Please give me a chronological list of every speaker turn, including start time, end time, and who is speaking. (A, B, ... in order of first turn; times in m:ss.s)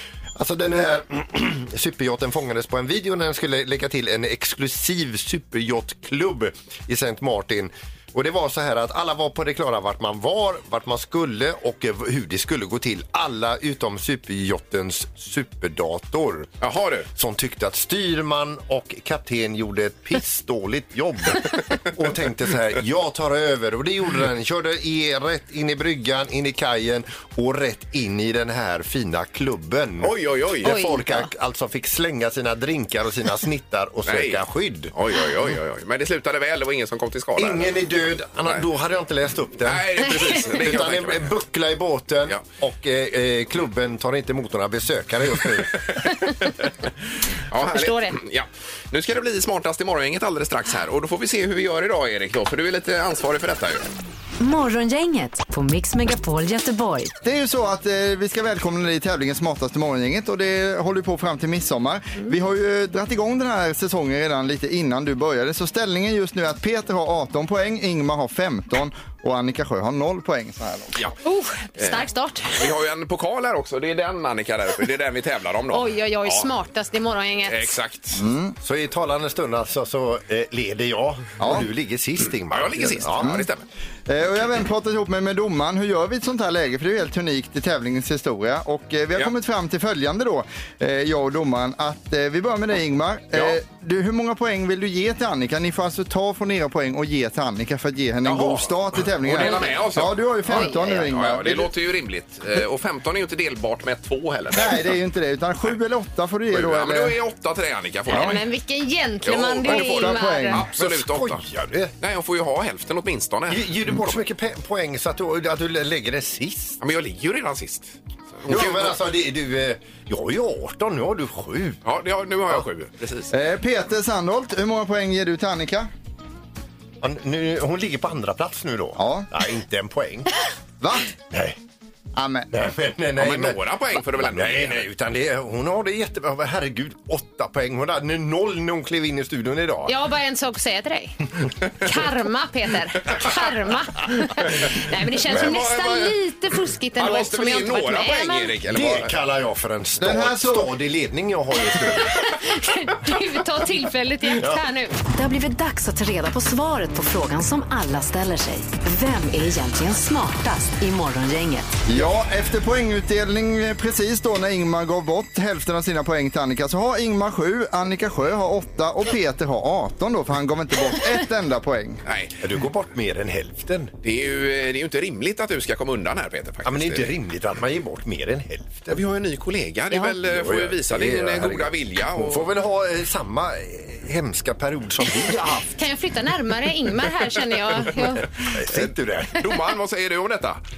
0:00.4-0:16.5 A
0:16.6-0:17.1 B
0:17.1-0:34.9 A
0:30.0-0:30.8 B
0:30.6-0:31.3 C
0:34.0-0:37.7 B
0:37.4-0:46.0 A
0:39.6-0:41.3 B
0:47.5-0:53.9 B
0:47.6-0:48.2 C
0:54.4-0:57.1 D
0:57.2-1:11.0 E
1:11.2-1:12.6 C
1:11.8-1:16.5 B
1:15.7-1:17.8 C
1:17.4-1:18.2 B
1:18.1-1:18.6 E
1:18.6-1:23.4 A
1:21.4-1:21.7 E
1:22.5-1:23.6 B
1:23.2-1:23.5 E
1:24.1-1:41.7 E
1:38.2-1:44.8 B
1:39.4-1:39.7 C
1:40.5-1:41.0 C
1:44.5-1:47.2 E
1:46.5-1:48.5 B
1:48.1-1:48.4 E
1:48.1-1:50.6 C
1:49.2-1:54.2 B
1:49.6-1:50.7 E
1:50.8-1:51.9 A
1:53.5-1:56.8 A
1:56.8-1:59.0 B
1:58.5-2:01.8 A
2:01.8-2:03.3 B
2:03.3-2:05.9 E
2:07.0-2:10.3 A
2:09.0-2:09.3 E
2:10.8-2:11.1 E
2:11.3-2:11.6 A
2:12.2-2:12.5 E
2:12.5-2:19.9 A
2:13.2-2:14.8 B
2:19.9-2:21.2 C
2:21.8-2:28.5 C
2:25.2-2:26.2 B
2:27.0-2:29.1 B
2:28.7-2:32.2 A
2:30.0-2:30.7 E
2:32.0-2:35.0 C
2:34.3-2:34.6 A
2:35.1-2:41.8 D
2:41.8-2:52.0 E
2:52.0-2:52.4 B
2:52.4-2:53.9 A
2:54.0-2:57.1 B
2:56.6-2:59.0 A
2:58.9-3:02.5 B
3:00.2-3:05.8 A
3:05.7-3:08.3 C
3:08.4-3:09.5 A
3:08.7-3:10.6 B